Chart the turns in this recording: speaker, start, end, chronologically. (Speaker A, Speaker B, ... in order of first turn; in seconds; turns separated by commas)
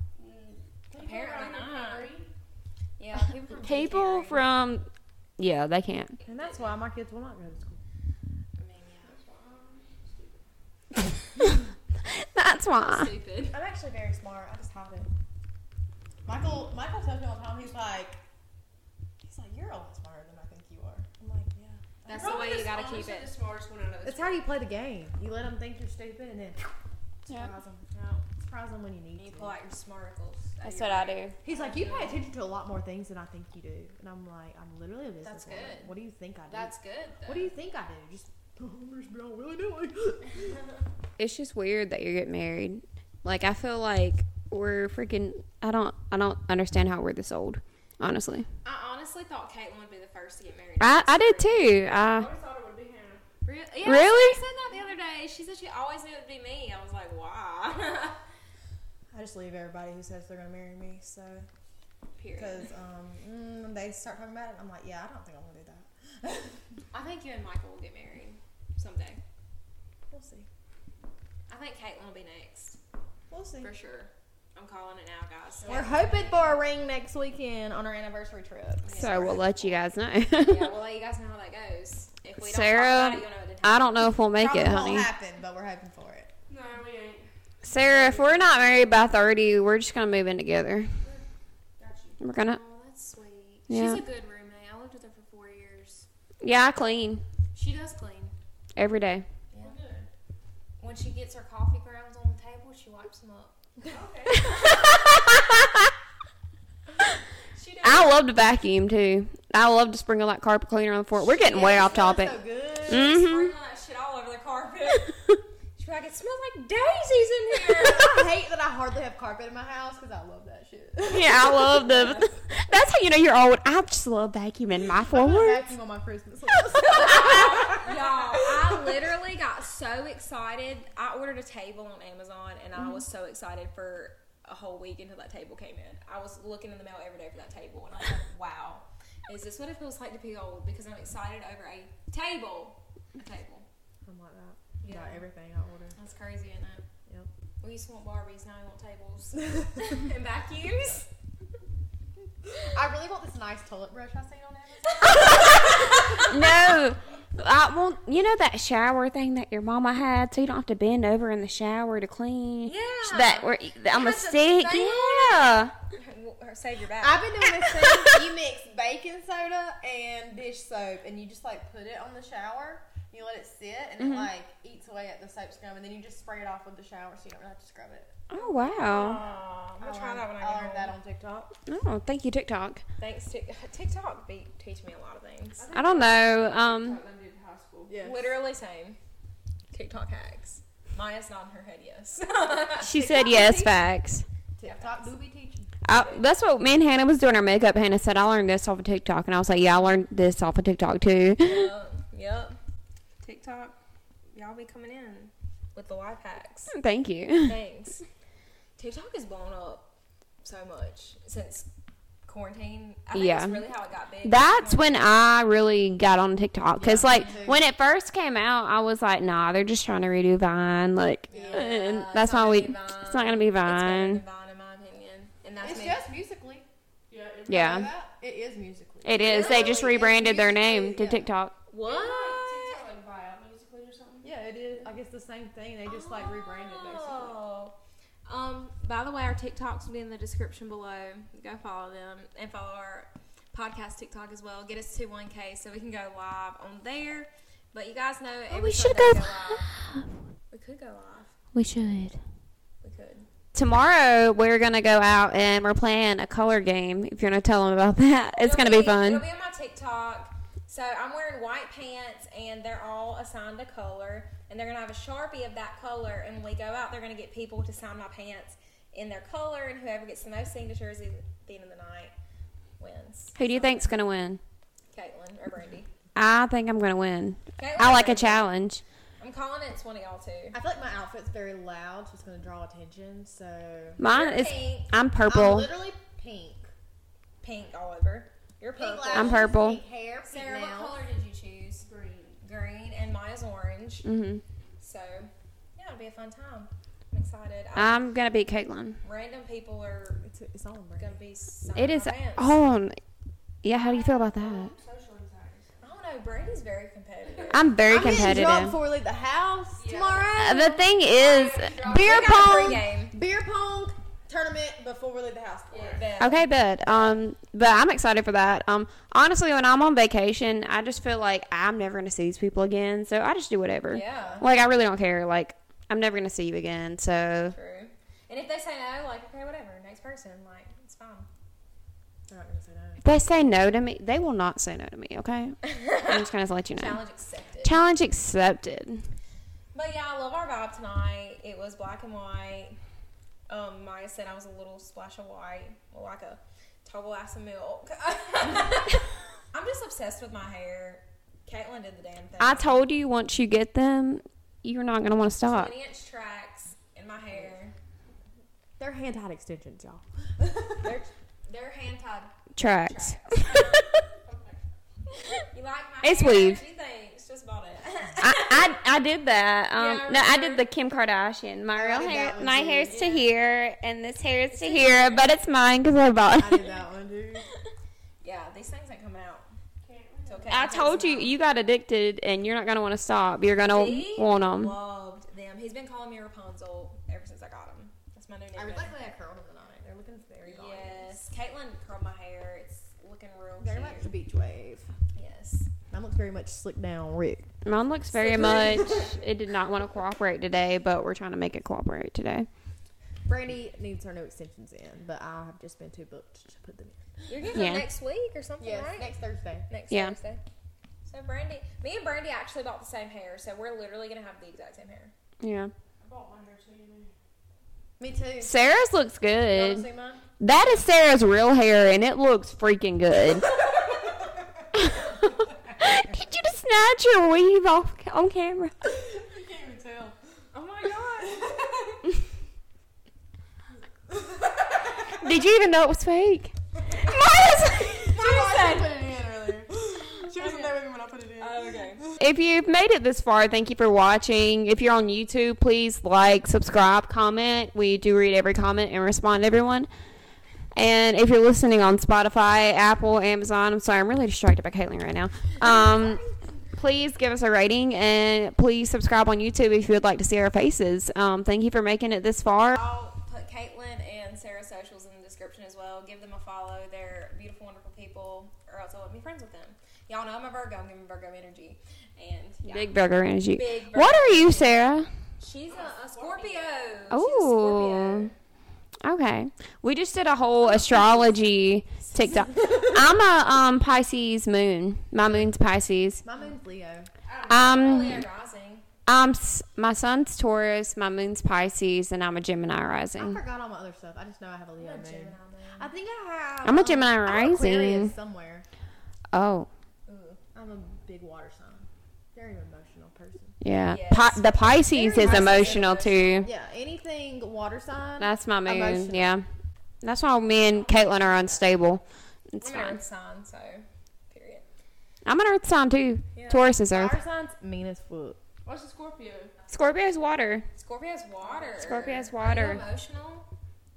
Speaker A: 0.1-2.3, Speaker B: 0.9-2.1, Speaker B: 3.0-4.5, Speaker C: 3.6-6.2, Speaker D: 6.2-7.8, Speaker B: 6.3-6.7, Speaker B: 8.6-9.2, Speaker A: 9.1-10.4, Speaker C: 12.0-13.1, Speaker B: 12.7-13.6, Speaker D: 13.5-15.1, Speaker D: 16.2-18.2, Speaker D: 19.2-22.6, Speaker B: 22.1-23.3, Speaker A: 22.1-24.5, Speaker D: 24.0-29.6, Speaker B: 27.9-28.2, Speaker B: 29.2-32.2, Speaker C: 30.6-31.3, Speaker D: 31.4-36.7, Speaker B: 35.2-35.9, Speaker B: 36.5-37.5, Speaker D: 37.2-40.5, Speaker C: 41.2-48.5, Speaker B: 48.6-51.7, Speaker C: 50.8-52.3, Speaker A: 52.0-53.2, Speaker B: 53.4-58.2, Speaker C: 53.8-54.4, Speaker D: 59.1-61.5, Speaker B: 62.2-62.7, Speaker D: 62.4-66.6, Speaker B: 66.9-69.2, Speaker D: 70.1-70.5, Speaker B: 71.5-72.8, Speaker D: 73.3-73.7, Speaker B: 73.6-76.6, Speaker D: 75.7-79.4, Speaker B: 78.8-79.8, Speaker C: 79.0-80.7, Speaker B: 80.4-84.1, Speaker C: 82.4-85.1, Speaker D: 84.3-86.3, Speaker A: 86.5-87.3, Speaker C: 87.6-90.9, Speaker B: 87.7-89.0, Speaker A: 91.8-92.2, Speaker C: 92.2-92.6, Speaker B: 92.4-96.1, Speaker C: 93.7-94.0, Speaker C: 96.4-97.2, Speaker B: 97.5-98.3, Speaker C: 98.8-99.2, Speaker A: 99.6-100.1, Speaker B: 100.8-105.2, Speaker A: 103.8-104.6, Speaker C: 104.5-105.9, Speaker B: 107.5-108.2, Speaker C: 107.8-113.5, Speaker D: 111.1-113.2, Speaker B: 112.9-115.1, Speaker B: 115.8-118.2, Speaker D: 117.8-122.0, Speaker C: 121.1-125.7, Speaker B: 121.7-122.4, Speaker D: 125.0-128.8, Speaker B: 126.9-143.7, Speaker D: 144.0-145.9, Speaker B: 144.8-145.2, Speaker B: 145.9-146.8, Speaker B: 147.6-151.1, Speaker D: 152.6-156.2, Speaker B: 155.0-156.3, Speaker C: 155.1-165.7, Speaker B: 162.6-167.3, Speaker D: 167.0-178.2, Speaker C: 167.8-168.2, Speaker C: 174.0-174.3, Speaker C: 178.3-179.2, Speaker B: 178.3-180.9, Speaker D: 179.2-181.5, Speaker C: 181.7-182.8, Speaker B: 183.0-185.7, Speaker A: 185.6-188.1, Speaker C: 185.7-187.0, Speaker D: 187.9-188.3, Speaker B: 188.0-189.0, Speaker B: 189.7-193.8, Speaker C: 192.8-194.2, Speaker D: 194.6-195.7, Speaker B: 194.6-195.1, Speaker C: 195.8-201.7, Speaker B: 195.9-196.2, Speaker B: 201.4-202.6, Speaker B: 203.2-203.8, Speaker B: 204.3-206.7, Speaker C: 206.7-207.6, Speaker B: 207.4-208.0, Speaker B: 208.8-209.9, Speaker B: 210.4-211.7, Speaker B: 212.2-214.9, Speaker C: 213.1-213.6, Speaker C: 214.2-224.2, Speaker D: 216.8-217.6, Speaker D: 221.3-221.8, Speaker B: 221.3-226.0, Speaker D: 225.6-226.7, Speaker A: 227.1-227.9, Speaker C: 227.5-227.9, Speaker D: 227.5-231.3, Speaker C: 229.0-231.5, Speaker B: 229.2-230.0, Speaker B: 231.7-232.8, Speaker A: 231.8-234.9, Speaker D: 234.2-237.2, Speaker B: 235.9-237.7, Speaker A: 236.7-237.3, Speaker B: 238.3-249.7, Speaker C: 248.5-250.0, Speaker B: 250.5-251.3, Speaker C: 251.5-252.2, Speaker B: 252.8-253.3, Speaker C: 253.5-259.2, Speaker B: 258.4-272.1, Speaker B: 272.8-274.0, Speaker C: 273.4-274.4, Speaker B: 274.9-275.9, Speaker C: 276.1-278.8, Speaker B: 277.6-278.4, Speaker B: 279.2-280.6, Speaker D: 280.5-284.0, Speaker C: 284.0-285.7, Speaker B: 284.0-284.9, Speaker D: 285.3-286.7, Speaker B: 287.4-289.4, Speaker D: 288.7-291.0, Speaker C: 289.1-289.8, Speaker B: 290.2-291.9, Speaker A: 291.8-292.4, Speaker B: 292.4-294.1, Speaker C: 294.0-294.4, Speaker B: 294.8-298.0, Speaker C: 297.7-299.0, Speaker B: 299.0-300.2, Speaker D: 300.2-301.2, Speaker B: 301.0-302.5, Speaker C: 301.7-303.0, Speaker C: 303.6-304.7, Speaker A: 303.7-305.7, Speaker B: 305.8-307.7, Speaker C: 307.5-308.8, Speaker D: 307.8-310.9, Speaker A: 309.8-310.4, Speaker C: 310.4-312.8, Speaker A: 311.0-312.5, Speaker B: 311.9-313.1, Speaker D: 312.5-316.1, Speaker A: 315.7-316.1, Speaker B: 315.9-317.2, Speaker C: 316.2-327.5, Speaker B: 323.9-324.4, Speaker D: 324.1-324.4, Speaker B: 327.5-331.3, Speaker D: 332.3-333.0, Speaker C: 333.0-337.0, Speaker B: 335.6-337.8, Speaker C: 337.6-339.0, Speaker B: 339.7-342.8, Speaker B: 343.5-352.8, Speaker C: 352.4-355.7, Speaker B: 355.5-357.7, Speaker D: 358.8-360.9, Speaker B: 360.8-364.0, Speaker C: 362.5-363.9, Speaker A: 364.1-364.7, Speaker B: 365.3-368.8, Speaker C: 366.0-366.6, Speaker C: 368.2-376.7, Speaker B: 369.7-370.7, Speaker D: 371.7-373.2, Speaker B: 374.5-375.3, Speaker D: 376.3-377.5, Speaker B: 378.2-379.5, Speaker A: 379.8-380.8, Speaker B: 380.2-381.3, Speaker C: 380.5-384.7, Speaker B: 383.7-388.9, Speaker D: 388.5-391.1, Speaker B: 390.4-394.1, Speaker D: 393.6-394.9, Speaker B: 395.1-395.7, Speaker D: 395.9-397.5, Speaker C: 397.6-402.5, Speaker B: 398.1-399.1, Speaker D: 398.3-399.1, Speaker D: 403.2-407.2, Speaker B: 407.3-409.1, Speaker C: 407.5-407.9, Speaker D: 408.6-409.7, Speaker B: 409.7-410.4, Speaker C: 409.9-410.1, Speaker B: 411.0-415.1, Speaker C: 415.4-415.7, Speaker A: 416.0-417.1, Speaker D: 418.0-418.6, Speaker C: 418.4-419.9, Speaker D: 419.5-420.2, Speaker C: 420.4-423.5, Speaker C: 424.7-428.9, Speaker D: 428.8-430.1, Speaker B: 430.5-431.4, Speaker D: 431.2-432.0, Speaker D: 434.1-435.0, Speaker C: 435.1-438.1, Speaker D: 438.0-442.2, Speaker B: 438.1-439.0, Speaker B: 441.4-442.1, Speaker C: 442.2-449.9, Speaker C: 450.7-456.2, Speaker B: 455.6-456.3, Speaker C: 456.8-462.8, Speaker B: 462.7-472.9, Speaker C: 472.7-475.1, Speaker B: 473.5-474.9, Speaker B: 475.4-478.3, Speaker A: 475.7-476.7, Speaker C: 477.1-478.3, Speaker C: 479.0-486.2, Speaker D: 485.2-485.5, Speaker D: 486.2-487.1, Speaker A: 487.2-488.1, Speaker C: 487.5-488.2, Speaker B: 487.5-488.8, Speaker C: 489.1-493.4, Speaker D: 493.2-498.6, Speaker B: 494.8-495.9, Speaker C: 496.6-498.1, Speaker C: 499.3-499.7, Speaker B: 500.1-500.4, Speaker D: 500.5-503.5, Speaker C: 503.6-506.5, Speaker B: 503.9-506.5, Speaker D: 505.0-505.9, Speaker D: 506.4-509.3, Speaker C: 508.2-509.4, Speaker C: 510.0-512.0, Speaker B: 510.9-511.6, Speaker C: 512.5-513.0, Speaker B: 512.6-514.6, Speaker C: 515.2-517.2, Speaker B: 516.3-516.7, Speaker D: 516.9-518.4, Speaker A: 518.6-519.5, Speaker C: 519.7-520.6, Speaker B: 520.7-523.5, Speaker A: 521.5-521.9, Speaker C: 521.7-522.8